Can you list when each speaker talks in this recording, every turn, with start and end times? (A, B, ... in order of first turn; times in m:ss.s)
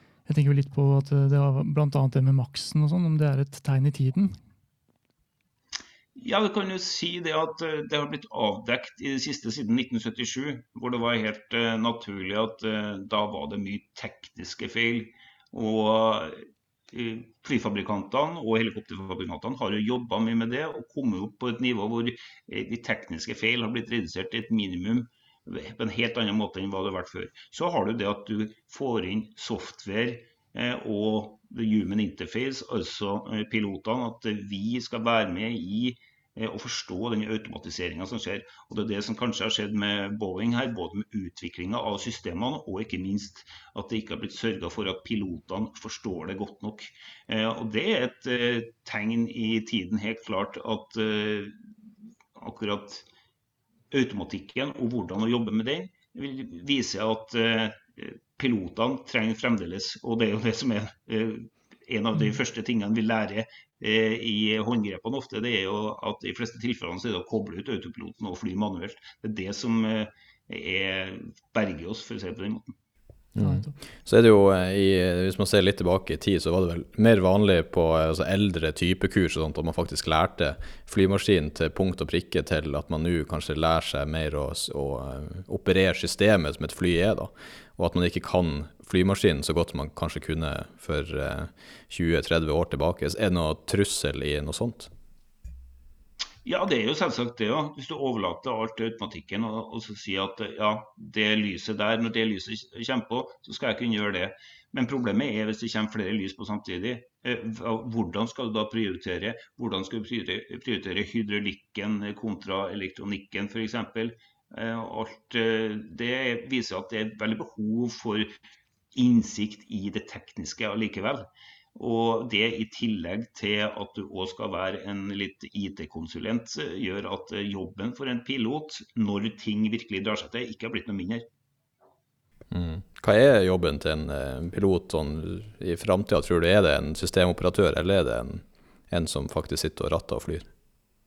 0:00.3-0:04.4 A
0:06.2-0:51.6 B
0:52.4-0:53.1 B
0:53.9-1:12.8 B
1:13.4-1:34.9 C
1:13.4-1:13.7 A
1:36.4-1:58.4 B
1:59.0-2:11.2 B
2:12.5-2:20.5 C